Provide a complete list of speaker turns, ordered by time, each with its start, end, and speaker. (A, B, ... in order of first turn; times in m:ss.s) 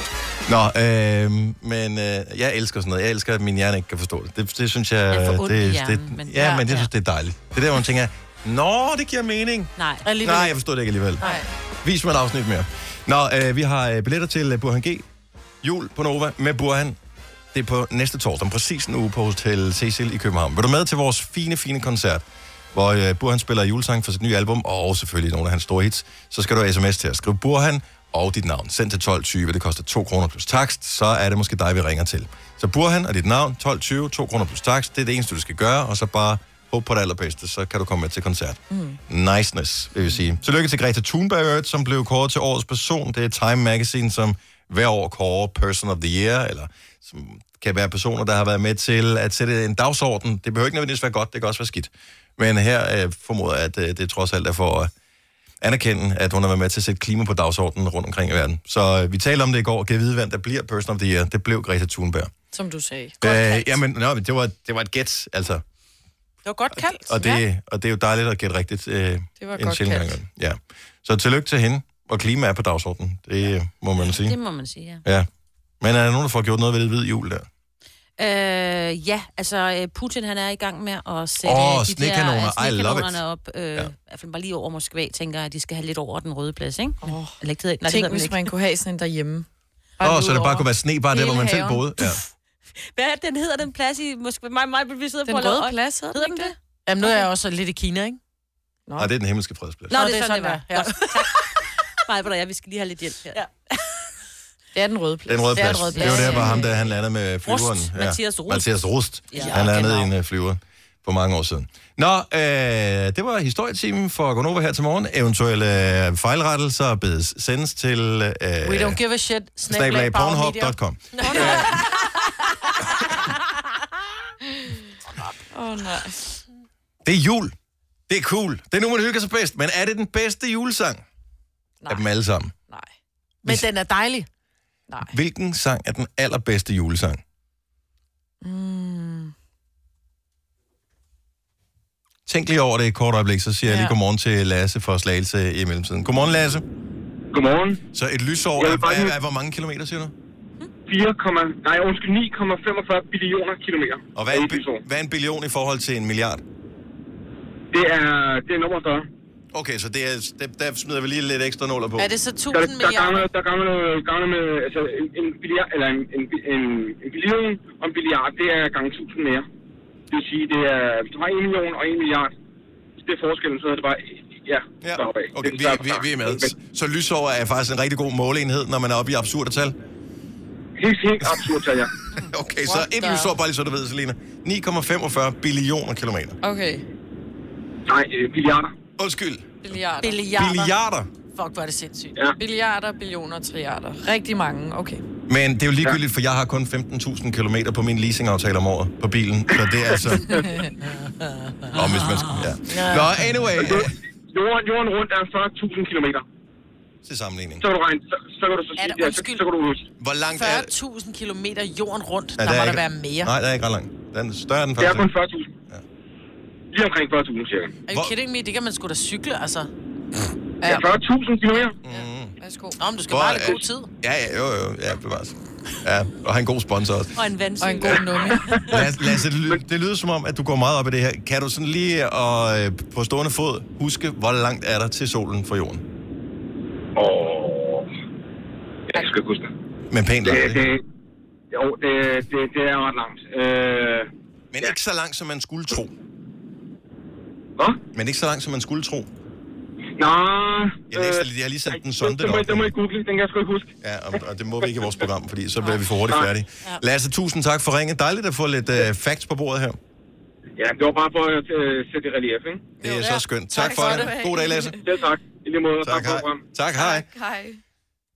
0:00.4-0:11.2 A
0:05.1-0:06.9 B
0:09.8-0:10.0 B
0:10.0-0:10.5 C
0:11.8-0:15.0 A
0:15.6-0:17.0 A
0:17.5-0:54.9 A
0:38.7-0:39.0 D
0:55.6-1:02.3 A
1:02.5-1:03.7 D
1:03.2-1:05.6 A
1:06.4-1:07.2 C
1:07.0-1:14.4 A
1:09.4-1:10.1 D
1:14.0-1:15.0 B
1:15.8-1:17.5 A
1:18.2-1:28.5 B
1:21.4-1:23.2 A
1:27.0-1:29.5 D
1:30.0-1:31.9 D
1:30.0-1:32.2 A
1:32.9-1:37.1 B
1:35.2-1:36.5 D
1:36.8-1:38.2 C
1:39.0-1:40.0 A
1:39.9-1:43.4 B
1:39.9-1:41.4 C
1:44.7-1:46.5 D
1:45.3-1:59.0 A
1:45.5-1:46.6 C
1:45.9-1:46.7 B
1:47.9-1:48.7 B
1:49.3-1:50.1 B
1:49.4-1:49.8 C
1:58.6-2:01.9 C
1:59.7-2:01.8 A
2:05.5-2:06.2 D
2:07.0-2:07.5 A
2:08.1-2:11.0 A
2:11.9-2:12.5 A
2:13.4-2:14.3 C
2:14.9-2:15.1 D
2:15.1-2:17.2 A
2:18.4-2:19.3 D
2:22.2-2:26.6 A
2:23.6-2:23.9 D
2:27.3-2:27.8 E
2:27.9-2:30.1 A
2:28.6-2:29.1 E
2:30.9-2:34.8 E
2:34.1-2:36.4 A
2:37.7-2:39.1 E
2:39.5-2:42.1 A
2:42.0-2:43.3 C
2:42.5-2:49.4 E
2:50.1-2:52.3 E
2:53.0-2:56.5 E
2:54.8-2:59.8 A
3:00.8-3:01.9 E
3:02.2-3:06.4 A
3:02.6-3:03.3 D
3:06.4-3:06.8 D
3:07.9-3:08.7 E
3:09.0-3:09.8 A
3:09.6-3:10.2 D
3:10.0-3:10.7 C
3:10.3-3:11.1 A
3:11.3-3:12.2 C
3:12.4-3:15.0 D
3:15.3-3:20.4 A
3:20.8-3:21.8 C
3:21.7-3:23.9 A
3:22.7-3:23.3 C
3:23.6-3:26.2 E
3:27.0-3:27.6 A
3:27.6-3:29.8 E
3:28.8-3:29.4 C
3:30.0-3:30.7 A
3:30.4-3:33.3 C
3:32.4-3:35.1 A
3:34.8-3:35.5 E
3:36.7-3:37.8 E
3:37.9-3:39.7 C
3:37.9-3:38.1 A
3:40.6-3:41.8 E
3:41.8-3:42.3 A
3:41.9-3:42.8 D
3:42.8-3:43.9 C
3:43.1-3:47.1 A
3:47.2-3:48.5 B
3:47.6-3:48.5 D
3:48.7-3:55.8 A
3:57.0-3:57.6 E
3:58.9-3:59.2 E
3:59.9-4:00.6 A
4:00.2-4:00.8 E
4:01.5-4:04.1 E
4:04.5-4:05.9 A
4:07.9-4:09.1 A
4:10.0-4:13.7 E
4:10.9-4:12.7 A
4:13.8-4:19.8 A
4:20.6-4:22.7 E
4:22.8-4:24.8 A
4:22.8-4:24.8 D
4:24.8-4:26.4 E
4:25.8-4:27.1 A
4:26.7-4:27.6 D